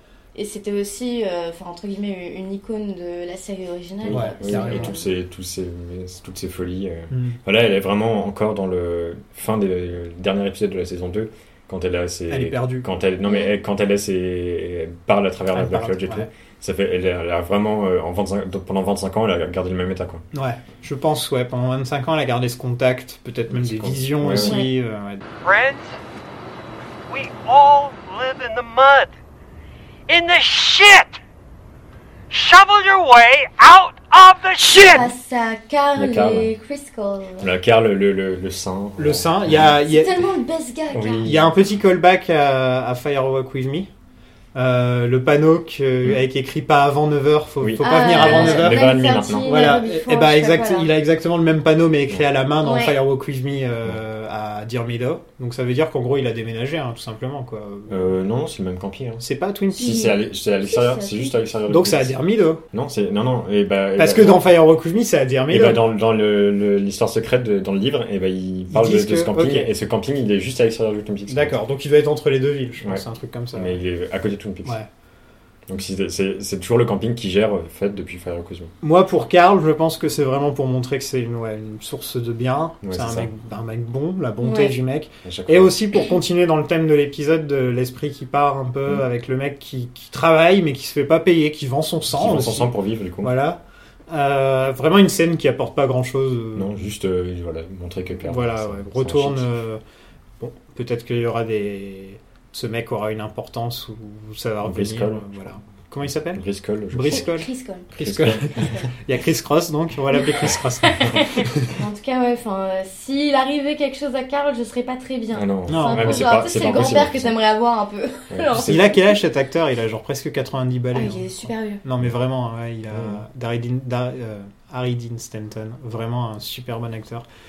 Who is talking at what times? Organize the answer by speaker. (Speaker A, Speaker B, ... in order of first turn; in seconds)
Speaker A: 0.3-5.1, 24.3-24.7, 34.7-37.5, 39.8-41.3, 47.8-50.9, 52.6-53.0, 59.8-61.4, 84.4-84.7, 107.0-107.9, 108.6-108.9, 110.8-119.0, 120.9-121.8
Speaker B: 4.0-20.2, 23.5-24.6, 36.0-36.5, 37.4-39.7, 40.9-41.5, 47.6-49.8, 57.9-59.2, 59.8-62.2, 62.7-64.5, 65.5-71.5, 73.5-74.8, 75.7-78.7, 82.8-83.3, 85.2-85.7, 92.1-93.3, 96.5-99.5, 104.6-105.5, 106.3-107.2, 108.0-108.8, 115.3-117.3, 118.3-118.9, 122.9-123.2
Speaker C: 4.1-5.0, 7.1-7.4, 12.3-12.9, 15.5-16.3, 20.3-25.2, 39.0-40.2, 41.2-43.9, 44.5-48.9, 49.4-58.1, 59.2-60.0, 61.7-62.6, 64.0-65.8, 68.7-69.7, 71.3-73.8, 78.8-96.8, 98.2-99.8, 100.4-111.7, 115.7-116.3, 118.6-127.2
Speaker D: 25.4-26.0, 27.1-29.1, 30.1-31.2, 32.3-35.0